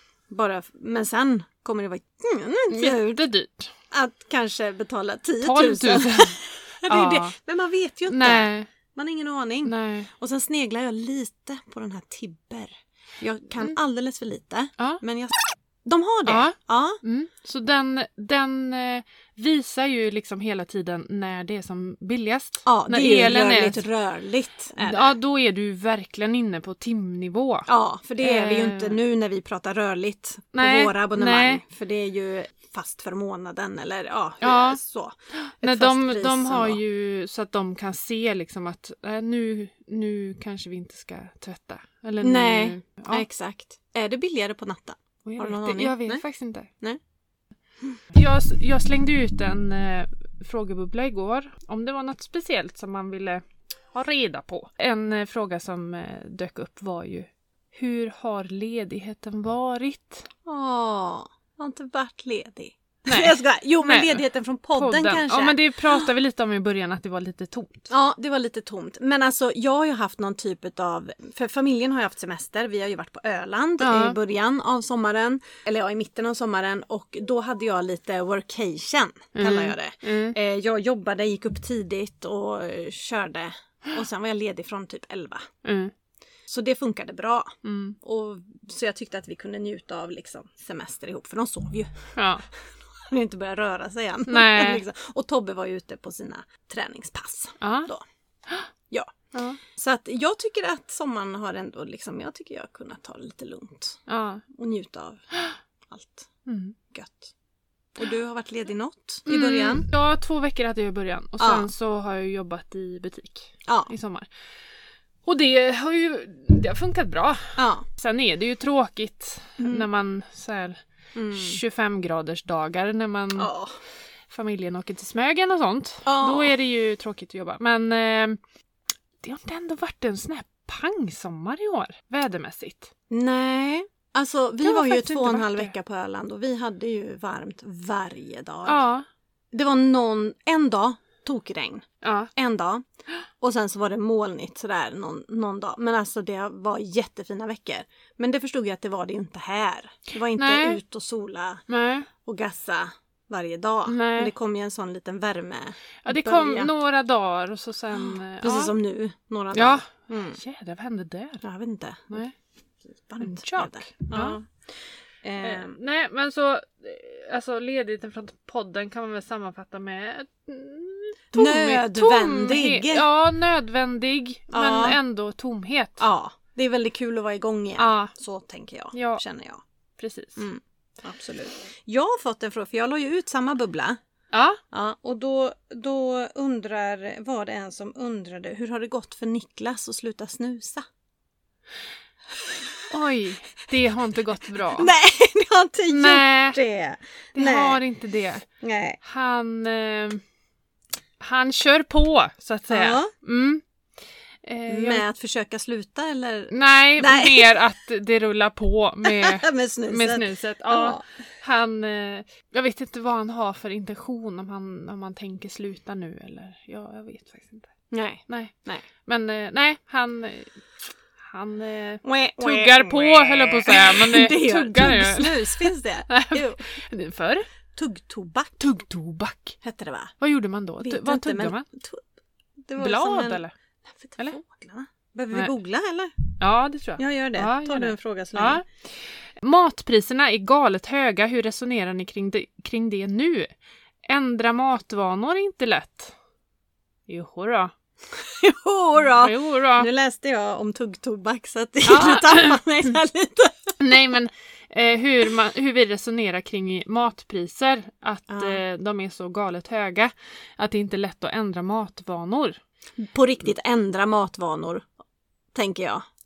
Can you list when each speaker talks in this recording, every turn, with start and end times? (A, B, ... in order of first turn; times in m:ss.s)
0:00.3-0:03.3 A
0:02.7-0:03.7 B
0:03.9-0:17.0 A
0:05.4-0:07.3 B
0:08.1-0:08.7 B
0:09.6-0:10.1 B
0:16.2-0:23.8 B
0:22.6-0:25.1 A
0:24.8-0:27.7 B
0:27.7-0:36.8 A
0:28.2-0:29.0 B
0:30.5-0:31.6 B
0:34.4-0:34.8 B
0:35.4-0:43.2 B
0:42.2-0:46.2 A
0:45.2-0:46.7 B
0:48.1-1:00.3 B
1:00.4-1:06.1 A
1:03.1-1:04.2 B
1:04.7-1:07.9 B
1:07.9-1:25.5 A
1:13.8-1:14.2 B
1:19.3-1:20.4 B
1:25.6-1:25.9 B
1:26.5-1:38.0 A
1:27.6-1:28.0 B
1:32.1-1:32.4 B
1:34.3-1:34.8 B
1:37.6-1:37.9 B
1:38.9-1:45.2 A
1:39.3-1:39.6 B
1:44.1-1:44.4 B
1:45.9-1:46.3 A
1:46.4-1:46.8 B
1:46.9-1:47.3 A
1:47.9-1:49.9 A
1:49.2-1:54.3 B
1:51.4-1:51.7 A
1:55.2-2:00.8 B
1:57.6-1:57.8 A
1:59.6-1:59.9 A
2:01.1-2:01.6 A
2:01.3-2:03.5 B
2:03.4-2:03.8 A
2:04.3-2:08.4 B
2:06.0-2:06.5 A
2:09.2-2:12.9 B
2:13.1-2:18.8 A
2:14.6-2:15.7 B
2:18.6-2:19.0 B
2:19.5-2:22.8 A
2:22.0-2:22.3 B
2:23.4-2:31.6 A
2:30.4-2:30.8 B
2:31.7-2:32.1 B
2:32.2-2:36.7 A
2:33.8-2:34.3 B
2:36.0-2:38.7 B
2:38.0-2:40.4 A
2:39.5-2:41.4 B
2:41.4-2:42.2 A
2:42.1-2:42.3 B
2:43.0-2:44.6 A
2:43.2-2:44.4 B
2:45.2-2:45.8 A
2:45.4-2:56.0 B
2:51.3-2:53.1 A
2:54.5-2:55.0 A
2:56.0-2:59.6 A
2:57.8-2:58.1 B
2:58.9-2:59.2 B
3:00.0-3:00.4 B
3:00.4-3:04.0 A
3:04.3-3:04.6 B
3:04.7-3:10.8 A
3:12.3-3:12.7 A
3:12.9-3:14.9 B
3:14.7-3:17.8 A
3:15.9-3:16.6 B
3:17.3-3:18.4 B
3:18.6-3:19.0 A
3:19.0-3:20.2 B
3:21.2-3:23.6 B
3:22.7-3:23.1 A
3:24.4-3:25.0 B
3:24.7-3:27.5 A
3:26.5-3:37.7 B
3:29.0-3:31.0 A
3:37.9-3:38.8 A
3:38.3-3:38.5 B
3:39.0-3:40.6 B
3:41.2-3:47.5 B
3:42.0-3:46.7 A
3:47.7-3:48.6 A
3:48.6-3:49.6 B
3:49.6-3:50.1 A
3:50.2-3:51.6 B
3:50.8-3:52.0 A
3:52.6-3:56.1 A
3:52.8-3:53.5 B
3:56.4-3:58.8 B
3:57.0-3:58.6 A
3:59.4-4:03.5 B
4:04.1-4:06.1 B
4:07.1-4:07.7 B
4:08.1-4:13.7 A
4:09.0-4:09.9 B
4:11.8-4:12.6 B
4:13.8-4:22.6 B
4:18.3-4:18.6 A
4:23.0-4:24.9 A
4:25.5-4:26.0 A